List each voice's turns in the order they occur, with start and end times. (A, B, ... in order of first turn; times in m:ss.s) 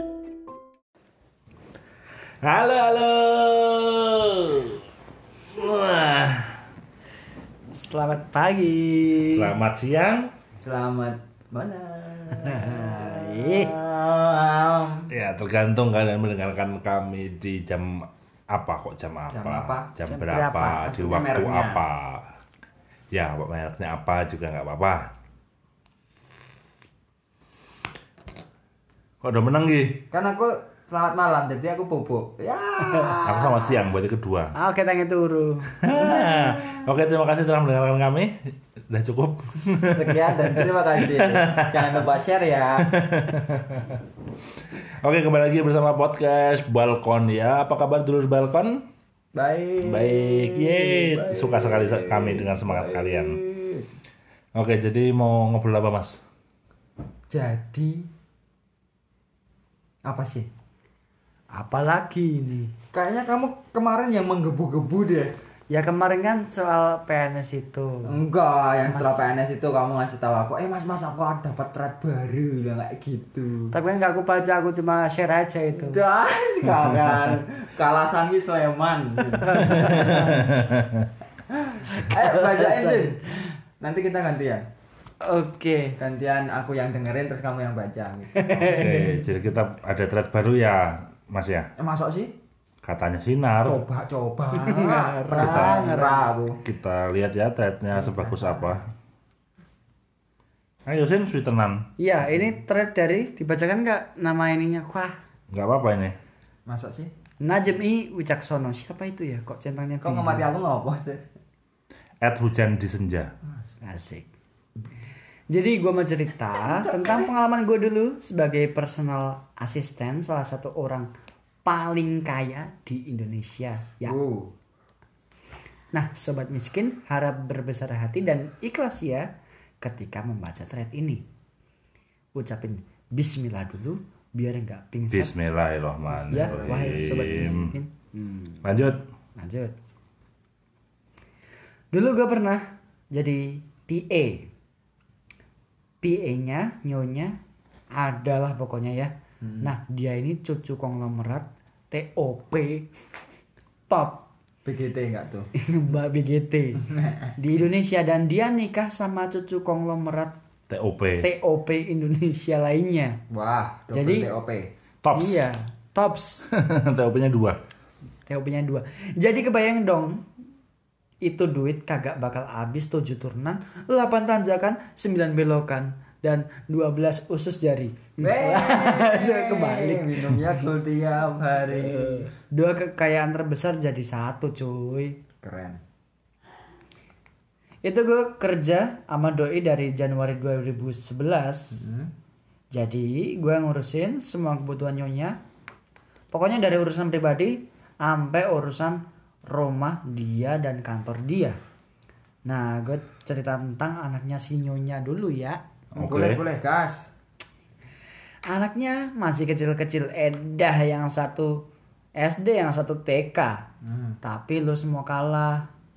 0:02.4-0:04.8 A
0:05.5-0:06.6 A
0:07.7-0:09.5 B
0:09.3-0:10.3 A
0:10.6-0:15.1 C
0:12.3-0:13.7 B
0:15.1-0:22.3 A
0:19.3-0:19.9 C
0:20.1-0:21.1 B
0:20.9-0:21.8 C
0:23.1-0:25.1 A
0:29.2-0:30.0 A
0:30.1-0:33.8 C
0:33.2-0:34.5 A
0:34.5-0:35.8 B
0:35.8-0:42.0 A
0:35.9-0:36.8 C
0:39.9-0:42.9 C
0:42.8-0:44.0 A
0:44.8-0:48.8 A
0:49.3-0:53.8 C
0:49.8-0:53.4 A
0:54.5-0:56.2 A
0:57.3-0:58.1 C
1:00.0-1:00.5 C
1:01.5-1:02.7 B
1:02.9-1:05.3 C
1:05.7-1:08.2 B
1:08.0-1:13.7 C
1:08.9-1:09.2 B
1:13.7-1:16.0 B
1:15.7-1:20.0 C
1:19.4-1:20.6 B
1:19.7-1:21.1 A
1:21.5-1:23.2 C
1:21.9-1:23.5 B
1:23.8-1:24.6 C
1:25.2-1:26.0 B
1:26.0-1:28.6 C
1:28.3-1:29.2 B
1:28.5-1:31.7 A
1:31.8-1:32.3 C
1:32.8-1:33.8 A
1:33.6-1:36.6 C
1:34.5-1:36.3 B
1:35.3-1:35.9 A
1:36.6-1:38.9 A
1:37.9-1:38.8 C
1:40.8-1:41.9 A
1:42.0-1:45.1 B
1:45.5-1:46.2 A
1:46.7-1:47.1 C
1:47.4-1:50.5 B
1:50.0-1:51.2 C
1:52.2-1:53.3 A
1:53.8-1:54.3 B
1:55.5-2:01.1 B
1:56.6-1:57.3 C
2:01.6-2:04.2 B
2:04.0-2:04.5 C
2:05.9-2:09.3 B
2:09.8-2:11.2 B
2:12.3-2:15.3 B
2:15.1-2:17.8 A
2:16.1-2:17.5 C
2:16.3-2:18.6 B
2:18.6-2:19.0 A
2:19.4-2:19.8 B
2:21.9-2:24.5 B
2:26.0-2:27.4 B
2:27.9-2:32.9 B
2:29.4-2:29.7 C
2:33.9-2:34.2 B
2:34.6-2:35.5 C
2:35.6-2:40.4 B
2:36.9-2:37.3 C
2:40.7-2:41.2 A
2:41.2-2:43.2 B
2:43.3-2:44.7 C
2:43.9-2:44.3 B
2:45.0-2:45.5 A
2:45.1-2:46.5 B
2:46.5-2:47.6 A
2:48.3-2:50.2 B
2:51.2-3:00.6 B
2:58.2-3:02.3 C
3:01.9-3:05.2 B
3:05.4-3:05.8 C
3:07.8-3:11.8 B
3:11.7-3:12.1 C
3:12.7-3:15.4 B
3:16.3-3:21.6 B
3:22.4-3:25.6 B
3:25.9-3:26.4 A
3:26.0-3:27.1 C
3:28.5-3:31.6 B
3:32.2-3:33.6 B
3:33.8-3:34.2 C
3:34.2-3:35.7 B